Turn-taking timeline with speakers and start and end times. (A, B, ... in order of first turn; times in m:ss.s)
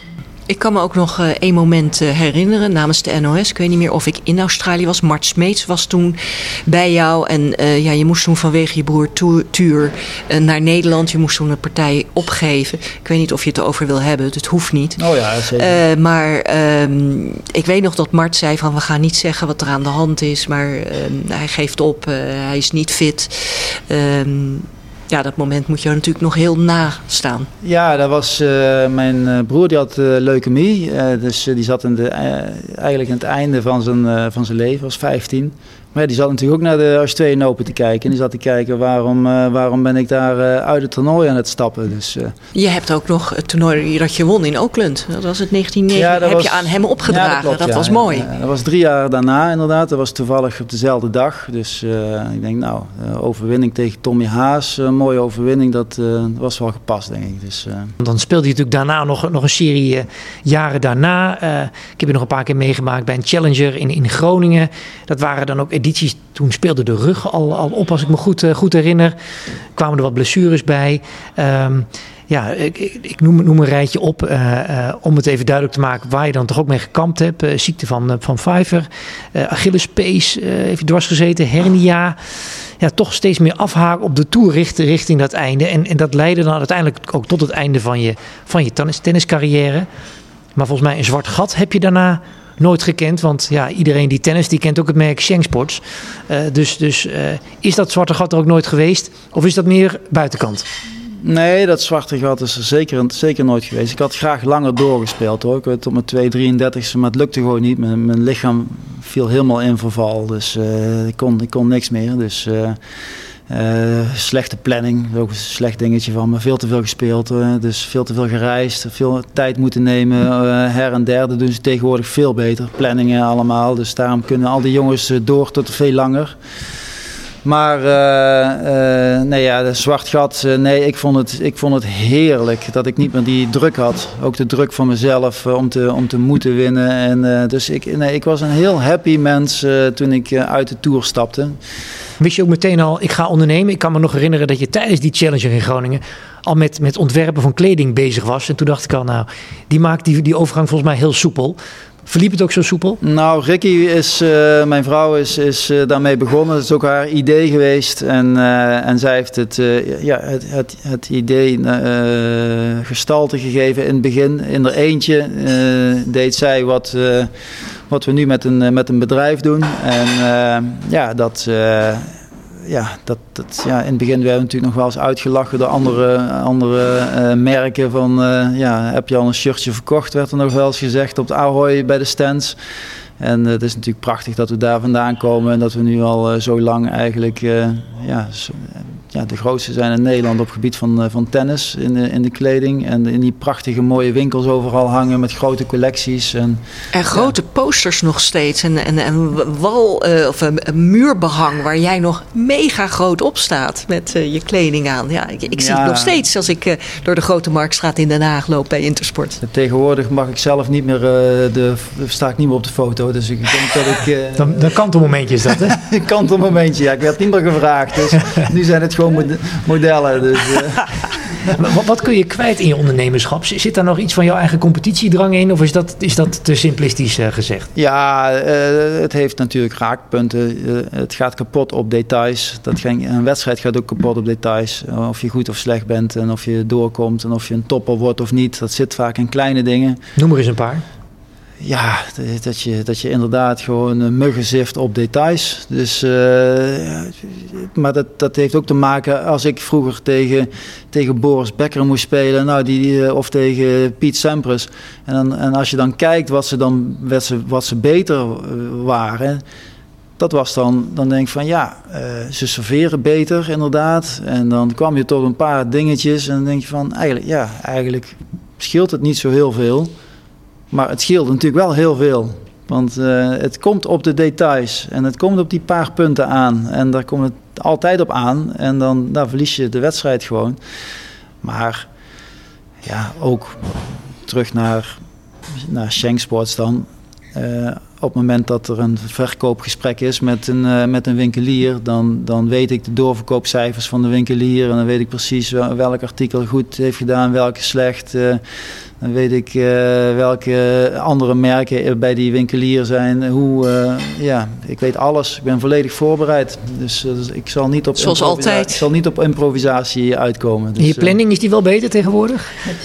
0:00.5-0:15.0 A
0:15.0-0:15.8 B
0:15.5-0:27.5 A
0:27.6-0:42.3 B
0:42.5-0:48.3 A
0:45.9-0:57.9 B
0:58.0-1:09.1 C
1:09.7-1:22.2 C
1:22.8-1:29.9 C
1:30.6-1:40.6 C
1:41.2-1:52.8 B
1:53.5-2:06.4 B
2:07.4-2:21.6 B
2:22.2-2:33.0 C
2:33.0-3:02.6 B
3:03.2-3:17.3 B
3:16.9-3:29.4 A
3:25.6-3:26.2 B
3:29.4-3:34.8 B
3:34.4-3:35.8 C
3:35.4-3:40.9 B
3:41.5-3:47.7 C
3:47.8-4:00.0 B
4:00.2-4:00.8 C
4:01.6-4:19.4 B
4:20.2-4:29.9 B
4:30.7-4:40.6 B
4:41.4-4:41.9 B
4:42.8-4:45.0 B
4:45.5-4:58.4 B
4:59.0-5:11.2 B
5:08.0-5:08.8 A
5:10.8-5:12.5 C